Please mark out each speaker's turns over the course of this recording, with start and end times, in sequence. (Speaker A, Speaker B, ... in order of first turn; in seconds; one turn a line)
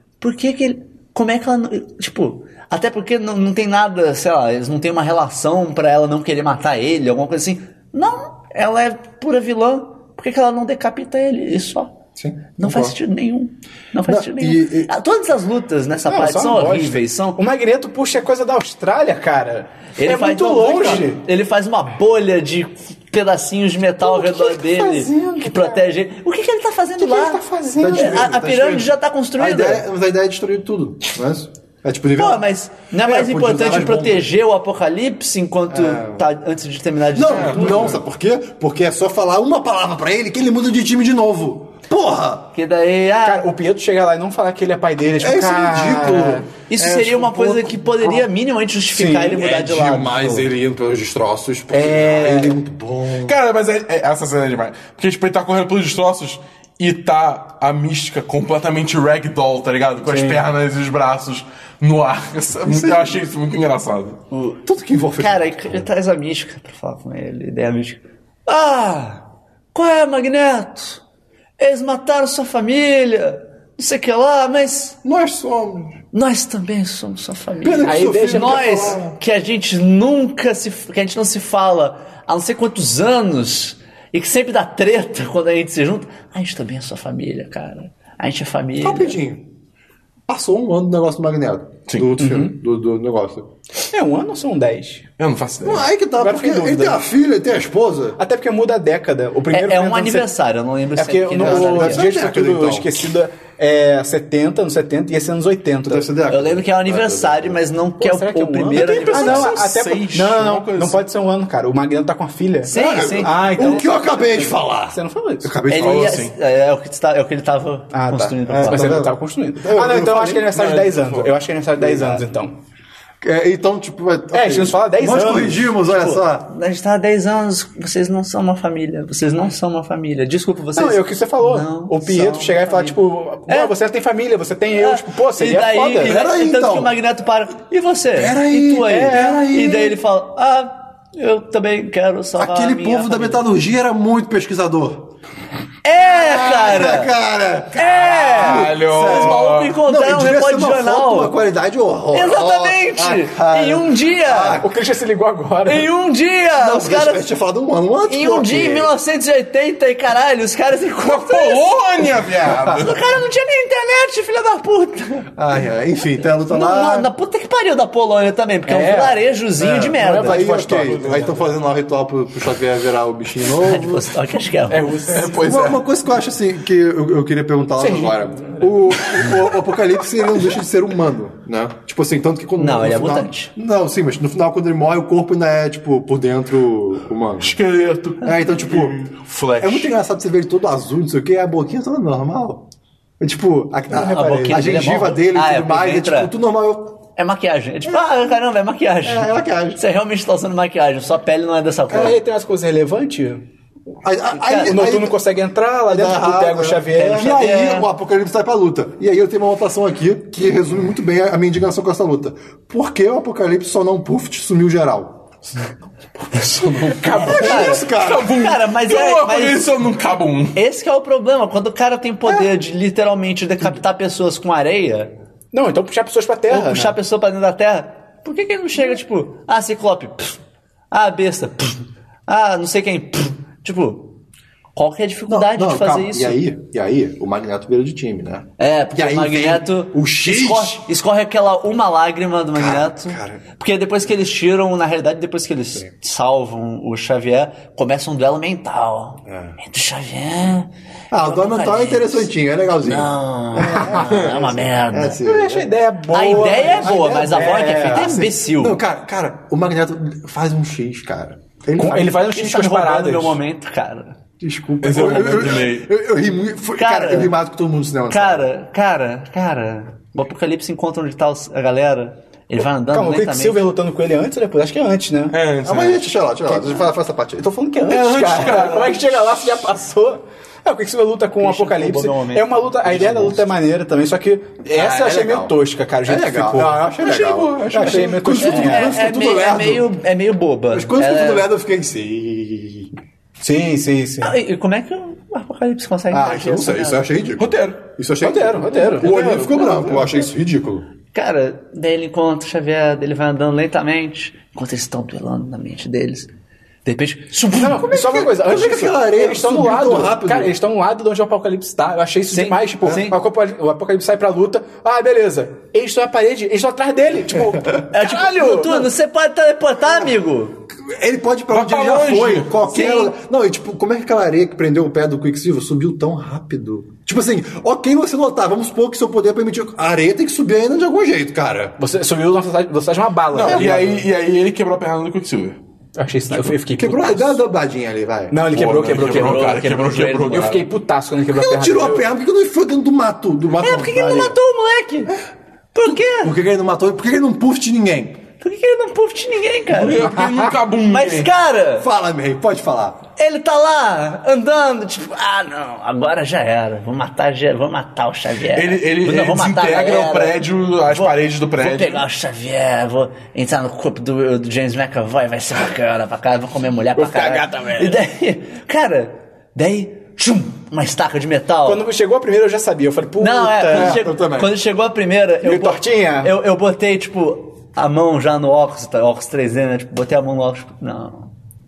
Speaker A: 0.2-11.9
Speaker B: 12.2-12.9
Speaker A: 12.6-17.4
Speaker B: 14.1-14.9
Speaker C: 16.1-21.2
Speaker A: 20.0-29.8
Speaker C: 24.0-25.9
Speaker C: 27.0-28.3
Speaker B: 27.8-32.5
Speaker A: 32.2-38.0
Speaker B: 33.0-34.3
Speaker B: 35.7-36.3
Speaker B: 37.1-42.5
Speaker D: 37.3-38.0
Speaker A: 42.5-43.5
Speaker C: 43.2-46.5
Speaker B: 45.2-47.8
Speaker A: 46.7-50.5
Speaker C: 48.9-49.5
Speaker B: 49.4-53.4
Speaker C: 51.7-52.6
Speaker D: 53.2-64.2
Speaker C: 60.0-60.4
Speaker B: 62.6-63.1
Speaker A: 64.3-64.6
Speaker B: 64.6-65.9
Speaker A: 65.2-71.0
Speaker A: 71.6-75.0
Speaker B: 75.0-76.0
Speaker A: 76.1-89.2
Speaker B: 77.6-79.2
Speaker C: 77.8-78.9
Speaker B: 88.8-89.5
Speaker B: 90.3-93.5
Speaker C: 92.2-92.5
Speaker C: 93.9-95.1
Speaker D: 95.2-95.9
Speaker B: 95.6-98.2
Speaker C: 96.2-97.0
Speaker C: 98.2-100.3
Speaker A: 99.5-102.1
Speaker C: 101.0-106.1
Speaker B: 101.4-103.0
Speaker B: 105.8-107.6
Speaker A: 106.3-109.6
Speaker C: 108.0-115.5
Speaker D: 108.8-111.0
Speaker A: 112.6-113.9
Speaker B: 112.7-116.2
Speaker A: 115.7-119.1
Speaker D: 115.7-116.3
Speaker C: 117.9-122.6
Speaker B: 118.5-120.6
Speaker D: 120.5-121.3
Speaker B: 121.8-122.2
Speaker B: 123.2-126.5
Speaker C: 124.3-125.7
Speaker A: 125.8-133.7
Speaker C: 130.7-136.2
Speaker A: 134.7-143.4
Speaker B: 136.0-136.9
Speaker B: 138.1-140.0
Speaker C: 138.8-139.4
Speaker B: 142.4-145.1
Speaker A: 145.8-147.1
Speaker B: 146.1-154.7
Speaker A: 147.7-151.3
Speaker D: 148.3-149.8
Speaker A: 152.1-154.6
Speaker C: 154.6-155.9
Speaker A: 155.6-157.3
Speaker B: 156.6-158.9
Speaker A: 158.1-161.8
Speaker D: 161.0-163.0
Speaker B: 162.4-162.9
Speaker A: 162.7-165.3
Speaker B: 165.3-167.1
Speaker A: 166.4-170.4
Speaker C: 168.7-171.5
Speaker B: 169.6-174.1
Speaker A: 173.5-175.1
Speaker C: 174.7-175.6
Speaker D: 175.1-175.8
Speaker B: 175.3-187.6
Speaker C: 177.8-178.8
Speaker A: 182.6-183.5
Speaker D: 187.4-189.9
Speaker B: 188.2-192.6
Speaker B: 193.2-197.0
Speaker A: 193.9-196.3
Speaker C: 193.9-194.8
Speaker A: 197.2-202.2
Speaker B: 199.0-199.8
Speaker C: 201.9-203.4
Speaker B: 204.0-205.2
Speaker A: 204.3-204.9
Speaker C: 204.6-207.6
Speaker B: 205.9-215.2
Speaker A: 206.9-207.9
Speaker D: 216.2-220.6
Speaker A: 217.0-219.7
Speaker B: 217.1-218.3
Speaker A: 220.5-225.1
Speaker B: 222.2-222.5
Speaker C: 225.5-226.9
Speaker A: 226.5-230.4
Speaker A: 230.9-234.2
Speaker A: 234.7-236.4
Speaker B: 235.3-240.8
Speaker A: 238.6-252.3
Speaker B: 242.5-243.4
Speaker B: 249.3-249.6
Speaker B: 251.1-255.7
Speaker A: 252.8-255.2
Speaker C: 253.6-254.1
Speaker C: 255.2-258.2
Speaker A: 256.1-258.8
Speaker B: 256.2-262.2
Speaker C: 261.8-263.4
Speaker A: 262.3-264.2
Speaker B: 264.4-268.5
Speaker D: 264.8-265.9
Speaker A: 266.8-267.3
Speaker A: 268.1-273.6
Speaker C: 272.6-275.4
Speaker D: 275.3-276.1
Speaker B: 275.6-277.5
Speaker C: 277.4-286.9
Speaker D: 277.9-279.1
Speaker A: 281.4-283.4
Speaker B: 284.7-285.5
Speaker B: 286.1-289.9
Speaker D: 286.9-288.3
Speaker C: 287.7-289.0
Speaker A: 288.3-291.5
Speaker B: 290.7-292.9
Speaker C: 293.4-294.4
Speaker A: 294.2-297.1
Speaker B: 296.1-300.9
Speaker D: 297.4-297.8
Speaker C: 298.2-300.1
Speaker D: 299.0-299.8
Speaker A: 301.1-306.3
Speaker A: 306.8-307.9
Speaker C: 307.5-318.9
Speaker B: 307.8-310.5
Speaker A: 312.3-313.2
Speaker A: 317.9-320.6
Speaker B: 320.8-331.8
Speaker D: 321.5-322.5
Speaker A: 322.7-323.1
Speaker C: 331.8-334.1
Speaker D: 333.3-335.6
Speaker C: 335.9-337.4
Speaker B: 336.4-338.4
Speaker C: 338.3-342.1
Speaker D: 338.5-340.6
Speaker A: 339.0-340.6
Speaker B: 341.3-344.3
Speaker A: 343.6-345.1
Speaker A: 345.7-346.3
Speaker B: 346.1-348.2
Speaker A: 348.4-350.1
Speaker D: 349.7-351.3
Speaker C: 350.0-350.5
Speaker A: 350.9-351.9
Speaker B: 351.8-353.0
Speaker A: 353.2-371.8
Speaker D: 358.5-362.0
Speaker C: 366.9-368.0
Speaker C: 371.6-374.0
Speaker A: 373.2-381.3
Speaker B: 373.5-374.5
Speaker C: 375.4-376.3